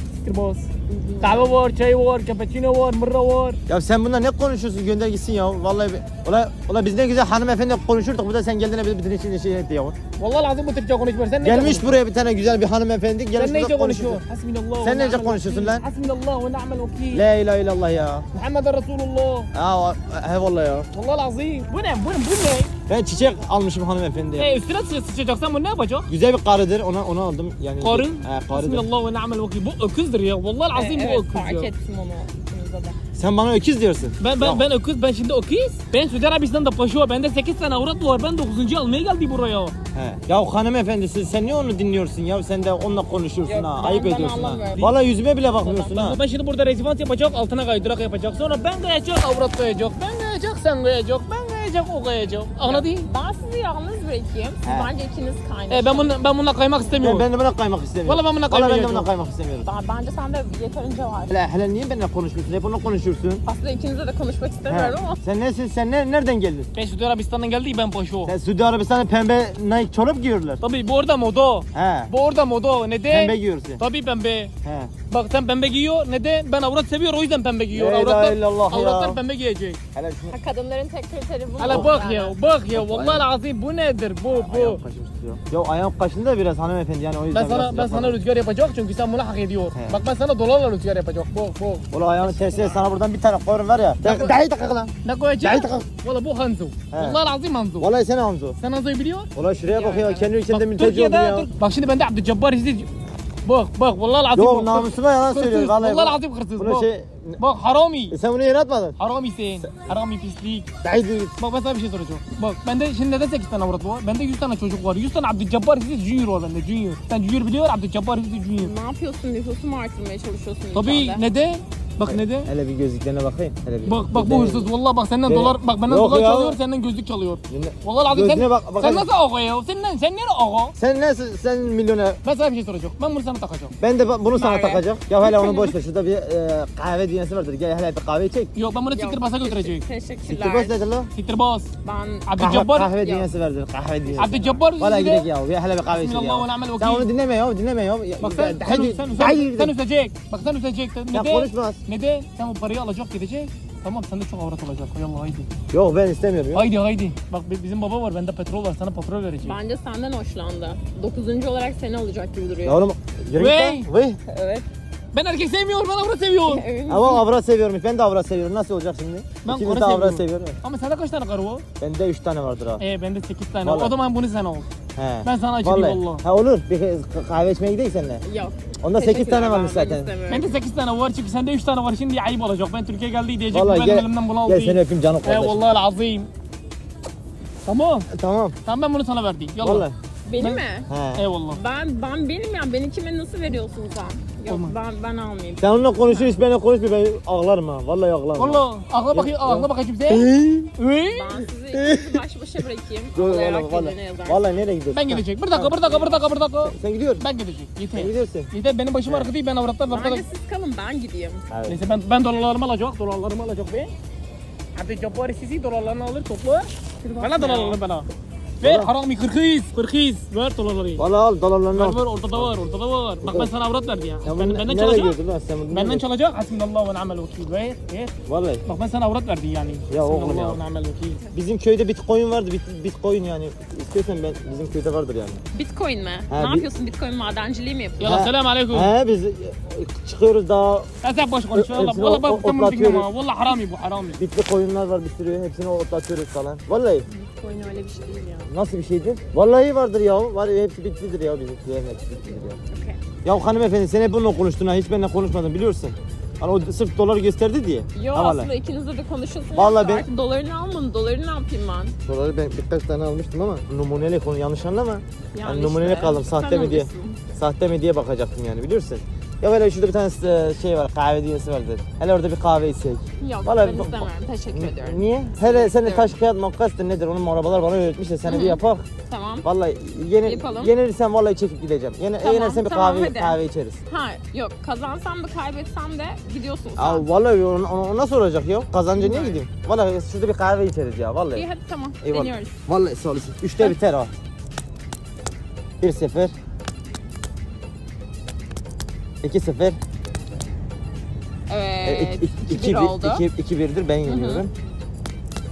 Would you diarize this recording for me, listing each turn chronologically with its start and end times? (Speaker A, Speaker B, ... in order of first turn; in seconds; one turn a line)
Speaker A: 0.2-0.7
Speaker B: 0.9-1.6
Speaker A: 1.2-3.6
Speaker C: 3.7-10.0
Speaker A: 10.2-12.0
Speaker C: 11.4-14.2
Speaker A: 13.3-17.3
Speaker C: 14.8-15.8
Speaker C: 17.1-18.2
Speaker A: 18.3-19.5
Speaker C: 19.5-20.9
Speaker A: 20.9-22.7
Speaker C: 22.9-24.5
Speaker A: 24.4-26.1
Speaker C: 26.1-28.9
Speaker A: 27.8-31.7
Speaker B: 30.7-33.0
Speaker C: 33.1-34.6
Speaker A: 34.2-39.7
Speaker C: 39.9-46.2
Speaker B: 43.4-44.9
Speaker A: 45.6-53.1
Speaker B: 52.6-56.1
Speaker C: 54.6-54.9
Speaker A: 55.7-57.3
Speaker C: 57.0-59.6
Speaker A: 58.0-59.1
Speaker B: 59.6-61.4
Speaker C: 61.3-63.4
Speaker B: 63.4-65.2
Speaker C: 64.7-66.7
Speaker A: 66.7-68.3
Speaker C: 68.2-70.6
Speaker A: 70.6-74.5
Speaker C: 71.7-72.1
Speaker C: 73.1-73.8
Speaker C: 74.6-74.9
Speaker A: 75.1-79.8
Speaker C: 77.7-79.2
Speaker C: 79.9-80.3
Speaker B: 80.3-82.3
Speaker A: 81.6-84.8
Speaker C: 81.7-81.9
Speaker C: 82.7-83.3
Speaker C: 84.3-88.2
Speaker A: 87.3-92.8
Speaker C: 89.7-90.0
Speaker C: 91.9-95.8
Speaker A: 94.0-94.3
Speaker A: 95.0-97.9
Speaker C: 96.9-97.2
Speaker C: 97.8-98.6
Speaker A: 98.6-99.3
Speaker C: 99.3-101.5
Speaker B: 99.7-100.3
Speaker A: 100.5-102.9
Speaker A: 103.4-108.2
Speaker C: 104.3-107.4
Speaker C: 108.1-109.0
Speaker A: 109.0-110.7
Speaker C: 110.8-111.3
Speaker A: 111.4-118.7
Speaker B: 118.6-121.2
Speaker A: 120.7-122.5
Speaker C: 122.0-124.7
Speaker A: 123.8-130.7
Speaker C: 125.3-126.6
Speaker C: 127.5-129.1
Speaker C: 130.8-132.2
Speaker A: 132.2-133.7
Speaker C: 133.8-138.5
Speaker B: 134.3-135.8
Speaker A: 138.5-139.8
Speaker B: 138.9-140.7
Speaker C: 140.3-141.1
Speaker A: 141.1-141.7
Speaker B: 141.8-142.3
Speaker A: 142.2-142.9
Speaker C: 142.4-149.7
Speaker B: 142.9-143.3
Speaker B: 144.1-144.6
Speaker A: 144.2-145.3
Speaker A: 145.9-147.1
Speaker A: 148.2-155.5
Speaker C: 151.1-151.8
Speaker C: 155.7-156.7
Speaker A: 156.5-159.6
Speaker B: 159.4-162.8
Speaker C: 162.6-164.2
Speaker A: 163.3-163.9
Speaker B: 164.3-164.7
Speaker A: 165.1-166.6
Speaker B: 166.4-167.2
Speaker C: 166.9-170.6
Speaker A: 169.4-171.7
Speaker C: 171.8-172.8
Speaker A: 172.8-174.7
Speaker C: 173.6-173.9
Speaker C: 174.9-178.2
Speaker A: 175.2-176.2
Speaker B: 178.2-180.6
Speaker C: 178.8-180.1
Speaker A: 180.3-186.3
Speaker C: 183.5-185.6
Speaker A: 187.6-188.1
Speaker C: 188.1-188.6
Speaker A: 188.7-189.9
Speaker C: 189.6-189.9
Speaker B: 190.2-190.9
Speaker C: 190.9-191.3
Speaker A: 191.2-191.6
Speaker B: 191.5-196.4
Speaker A: 194.5-194.8
Speaker C: 195.6-200.7
Speaker A: 198.3-201.4
Speaker B: 201.0-204.6
Speaker C: 201.7-202.2
Speaker C: 203.1-206.1
Speaker A: 204.9-210.2
Speaker C: 206.6-207.2
Speaker C: 207.9-208.5
Speaker B: 209.9-211.5
Speaker C: 211.5-211.8
Speaker A: 211.7-213.9
Speaker A: 214.7-218.1
Speaker B: 217.0-217.8
Speaker A: 218.6-221.0
Speaker C: 218.6-218.9
Speaker C: 221.0-222.6
Speaker A: 221.7-225.2
Speaker C: 223.2-223.5
Speaker C: 224.2-226.0
Speaker A: 225.7-228.1
Speaker C: 228.2-228.6
Speaker A: 228.6-231.2
Speaker C: 229.9-230.6
Speaker C: 231.3-235.4
Speaker B: 235.5-238.3
Speaker C: 236.3-236.7
Speaker A: 238.0-238.9
Speaker C: 238.0-240.9
Speaker A: 241.0-244.2
Speaker C: 241.5-243.1
Speaker C: 244.2-247.1
Speaker B: 247.1-248.5
Speaker C: 248.5-252.6
Speaker B: 252.7-253.0
Speaker C: 253.2-258.5
Speaker B: 257.9-262.0
Speaker C: 259.5-260.1
Speaker C: 262.1-278.9
Speaker B: 265.3-267.2
Speaker B: 273.2-276.2
Speaker B: 278.2-279.5
Speaker C: 279.4-283.8
Speaker B: 280.2-280.7
Speaker B: 282.2-287.1
Speaker C: 286.8-291.5
Speaker B: 288.9-289.4
Speaker B: 291.3-292.6
Speaker C: 292.0-294.1
Speaker C: 295.8-296.3
Speaker C: 299.2-299.8
Speaker B: 301.5-303.2
Speaker C: 301.8-304.5
Speaker B: 304.1-304.4